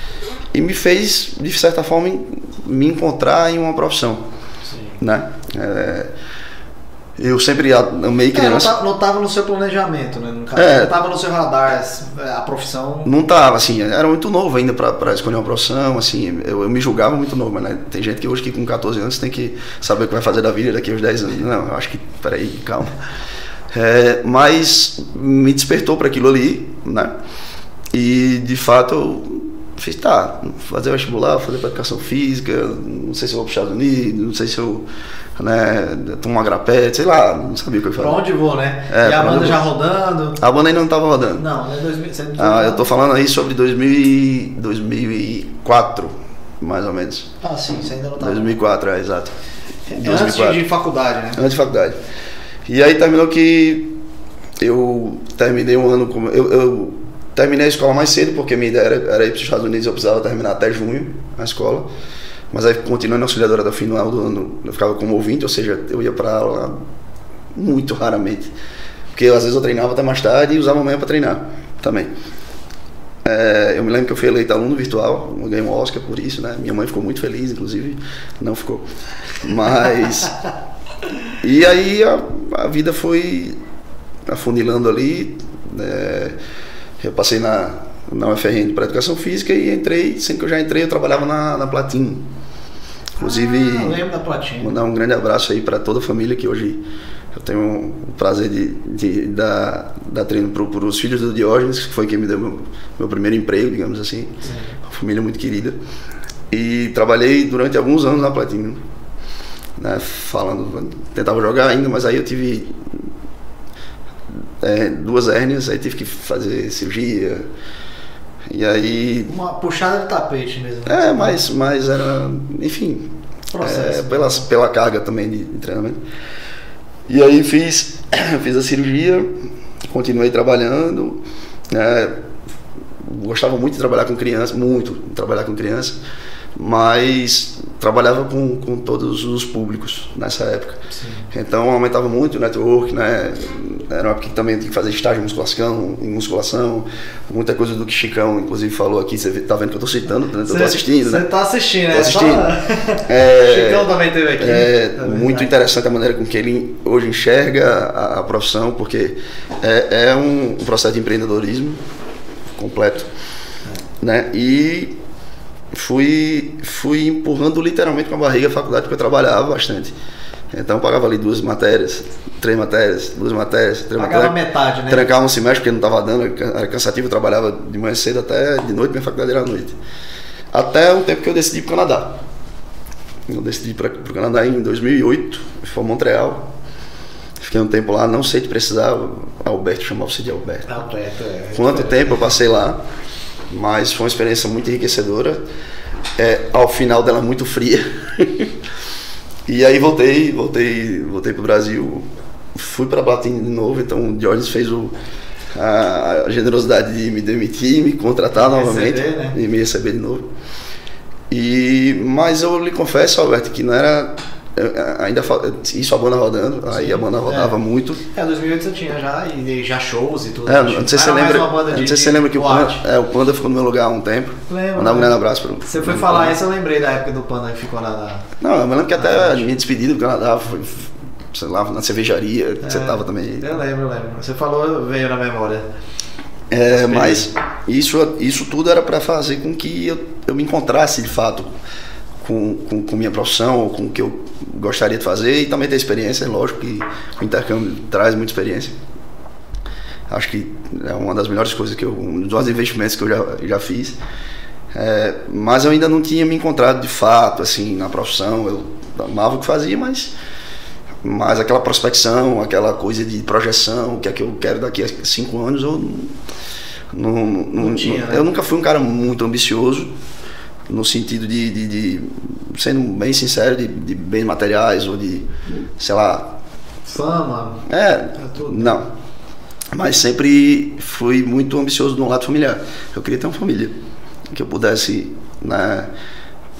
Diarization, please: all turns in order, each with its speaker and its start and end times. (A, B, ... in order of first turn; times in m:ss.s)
0:00.5-0:04.2 A
0:04.7-0:05.0 B
0:05.0-0:06.1 A
0:07.2-0:08.7 A
0:08.3-0:13.1 B
0:10.6-0:10.9 A
0:13.0-0:23.0 A
0:23.7-0:27.1 A
0:27.9-0:38.2 A
0:38.0-0:40.4 B
0:38.9-0:39.7 A
0:40.4-0:41.4 A
0:41.4-0:42.9 B
0:42.4-0:47.3 A
0:47.4-0:48.6 B
0:48.2-0:49.3 A
0:49.9-0:51.4 B
0:49.9-0:50.6 A
0:51.4-0:52.0 A
0:52.7-0:54.0 A
0:54.6-1:01.9 A
1:02.5-1:06.7 A
1:07.6-1:08.5 A
1:09.1-1:12.1 A
1:13.2-1:18.9 A
1:19.4-1:20.4 A
1:21.4-1:23.6 A
1:24.3-1:26.4 A
1:27.0-1:32.2 A
1:33.2-1:34.0 A
1:33.2-1:34.8 B
1:34.6-1:45.8 A
1:44.4-1:44.8 B
1:46.5-1:48.8 A
1:49.8-1:53.1 A
1:54.6-1:57.5 A
1:58.5-1:59.3 A
1:59.3-2:01.4 B
2:00.9-2:06.0 A
2:03.5-2:04.4 B
2:07.1-2:12.2 A
2:13.0-2:16.0 A
2:16.6-2:31.3 A
2:20.9-2:21.3 B
2:30.5-2:35.5 B
2:31.9-2:32.5 A
2:33.1-2:41.8 A
2:42.6-2:43.1 A
2:44.0-2:45.0 A
2:45.7-2:50.0 A
2:50.5-2:54.4 A
2:54.0-2:55.1 B
2:54.9-2:59.8 A
3:00.5-3:02.2 A
3:03.3-3:06.5 A
3:07.4-3:10.8 A
3:10.7-3:12.3 B
3:11.6-3:12.8 A
3:13.5-3:15.4 A
3:16.2-3:18.5 A
3:19.5-3:24.9 A
3:25.5-3:30.3 A
3:28.4-3:29.4 B
3:31.3-3:38.0 A
3:36.7-3:37.6 B
3:38.1-3:42.8 B
3:40.5-3:46.4 A
3:44.5-3:48.3 B
3:48.4-3:53.5 A
3:49.0-3:49.5 B
3:52.6-3:55.7 B
3:56.5-4:01.5 A
3:56.7-3:57.3 B
4:02.2-4:08.8 A
4:10.1-4:14.0 A
4:14.7-4:20.1 A
4:21.0-4:26.2 A
4:26.9-4:29.9 A
4:27.6-4:28.3 B
4:30.7-4:36.4 A
4:36.9-4:38.8 B
4:37.7-4:38.9 A
4:39.7-4:43.7 A
4:44.3-4:45.9 A